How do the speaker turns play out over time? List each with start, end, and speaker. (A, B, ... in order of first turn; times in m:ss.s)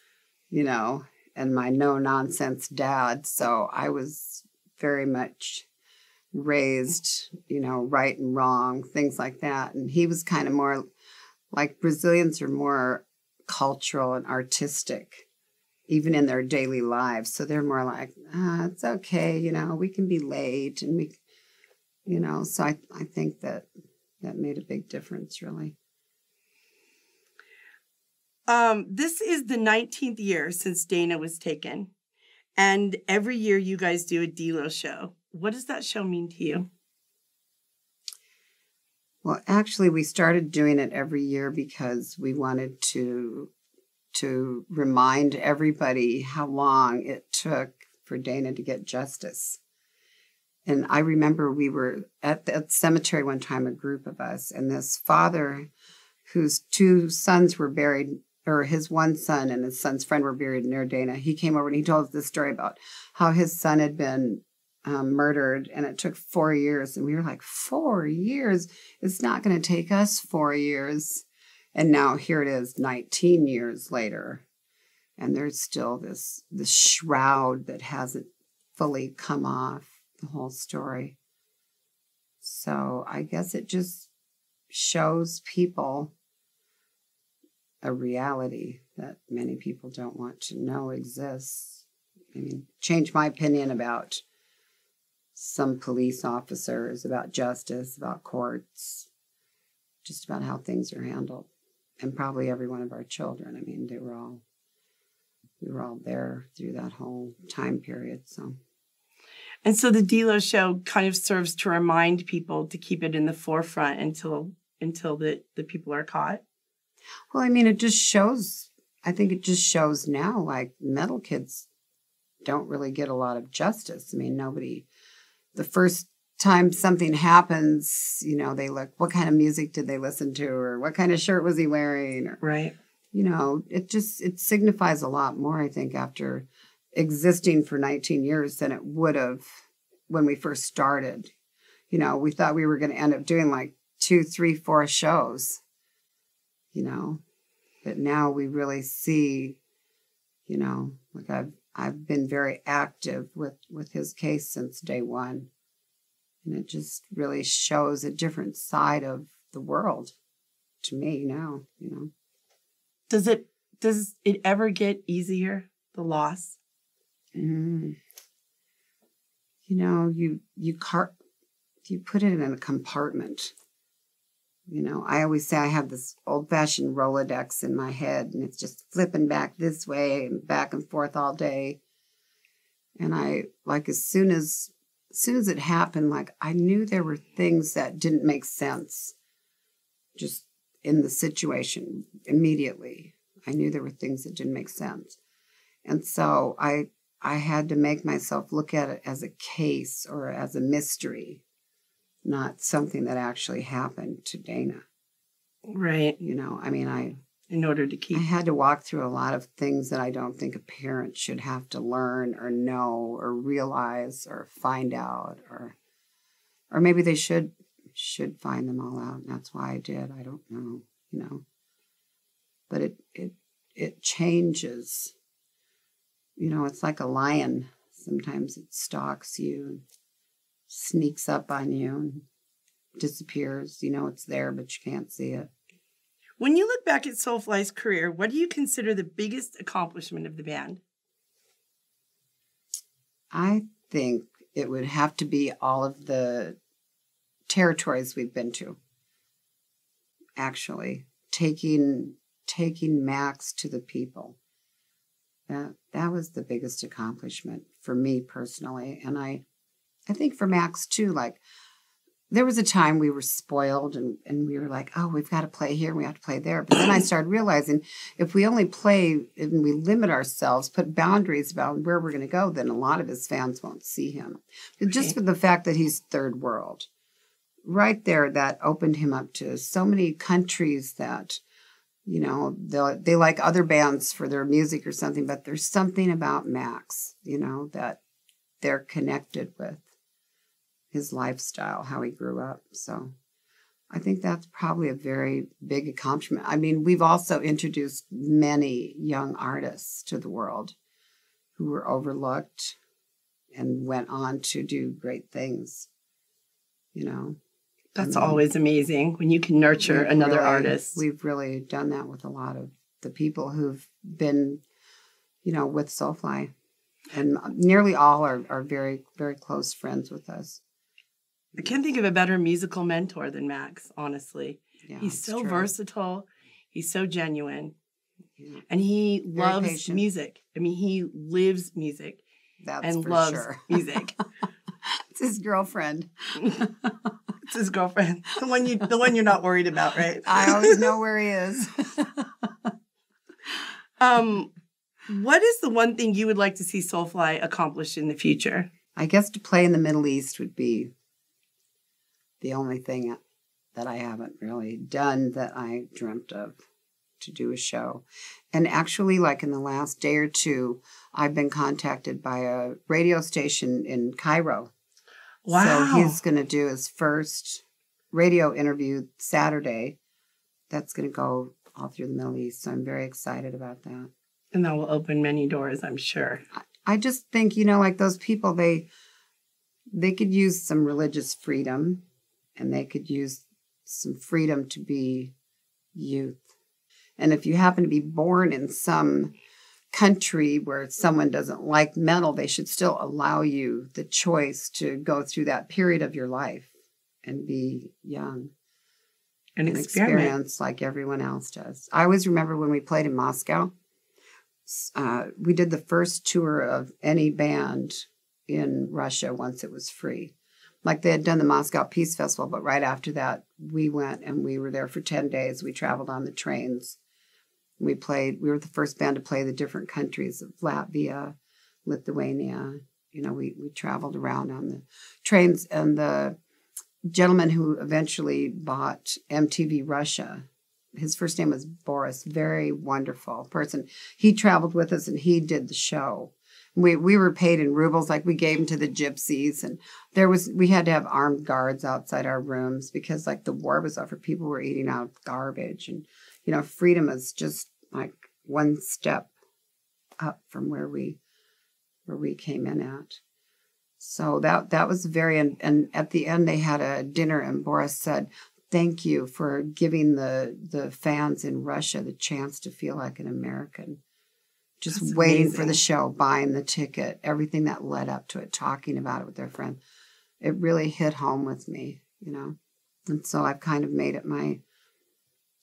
0:00.5-0:05.7 A
0:06.3-0:10.8 A
0:11.5-0:15.3 A
0:15.9-0:21.2 A
0:22.1-0:23.7 A
0:24.2-0:25.8 A
0:28.5-0:31.9 B
0:32.6-0:36.7 B
0:39.2-0:43.5 A
0:44.1-0:49.6 A
0:50.7-0:55.7 A
0:56.3-1:14.4 A
1:15.2-1:21.2 A
1:22.4-1:24.1 A
1:24.7-1:26.1 A
1:27.8-1:31.8 A
1:32.3-1:34.2 A
1:35.4-1:39.1 A
1:40.0-1:41.5 A
1:42.0-1:44.4 A
1:45.6-1:48.6 A
1:49.6-1:56.4 B
1:57.3-2:01.7 A
2:02.4-2:04.9 A
2:05.6-2:12.4 A
2:12.4-2:12.7 B
2:13.1-2:19.5 A
2:20.1-2:21.3 A
2:21.9-2:25.6 A
2:26.7-2:27.2 A
2:27.8-2:29.6 A
2:30.5-2:35.5 A
2:36.4-2:40.2 A
2:40.8-2:42.1 A
2:43.1-2:46.6 B
2:47.4-2:48.0 A
2:49.7-2:51.1 A
2:51.9-2:53.5 A
2:54.7-3:01.8 A
3:03.0-3:09.2 A
3:10.2-3:15.2 A
3:15.8-3:21.4 A
3:22.2-3:24.8 A
3:25.7-3:26.2 B
3:26.2-3:27.2 A
3:27.5-3:28.2 B
3:28.1-3:35.8 A
3:36.7-3:41.4 A
3:42.7-3:45.1 A
3:46.4-3:49.8 A
3:50.7-3:52.2 A
3:53.0-3:55.5 A
3:56.4-4:00.8 B
4:03.3-4:06.6 A
4:07.5-4:08.8 A
4:10.4-4:14.4 A
4:15.5-4:19.4 A
4:20.1-4:21.4 A
4:22.3-4:36.9 A
4:37.6-4:41.4 A
4:42.1-4:48.0 A
4:48.6-4:49.8 A
4:50.9-4:53.1 A
4:53.9-5:00.8 A
5:01.6-5:02.8 A
5:03.5-5:05.9 A
5:06.9-5:07.4 A
5:08.0-5:11.0 B
5:08.0-5:08.4 A
5:09.8-5:14.6 A
5:15.4-5:16.5 A
5:17.1-5:20.6 A
5:21.6-5:27.7 B
5:24.8-5:25.7 A
5:28.7-5:32.2 B
5:29.4-5:30.0 A
5:32.6-5:34.0 A
5:32.8-5:34.2 B
5:34.8-5:37.1 A
5:37.4-5:40.8 B
5:40.2-5:42.5 A
5:44.0-5:44.5 B
5:45.1-5:48.7 B
5:49.0-5:50.9 A
5:52.4-5:53.2 A
5:53.8-5:56.6 A
5:57.2-6:04.7 A
6:05.4-6:06.2 B
6:05.5-6:10.0 A
6:10.7-6:14.1 A
6:14.5-6:16.4 B
6:16.5-6:18.9 A
6:19.9-6:22.0 A
6:22.6-6:25.3 A
6:26.0-6:26.4 A
6:27.2-6:29.4 A
6:29.9-6:36.7 A
6:37.2-6:38.5 A
6:39.6-6:40.3 B
6:39.6-6:43.7 A
6:44.7-6:57.0 A
6:57.8-7:01.4 A
7:01.9-7:06.4 A
7:07.1-7:10.5 A
7:11.0-7:29.3 A
7:30.2-7:31.2 A
7:32.1-7:33.2 A
7:34.0-7:44.0 A
7:44.8-7:49.8 A
7:44.9-7:45.8 B
7:50.4-7:54.6 A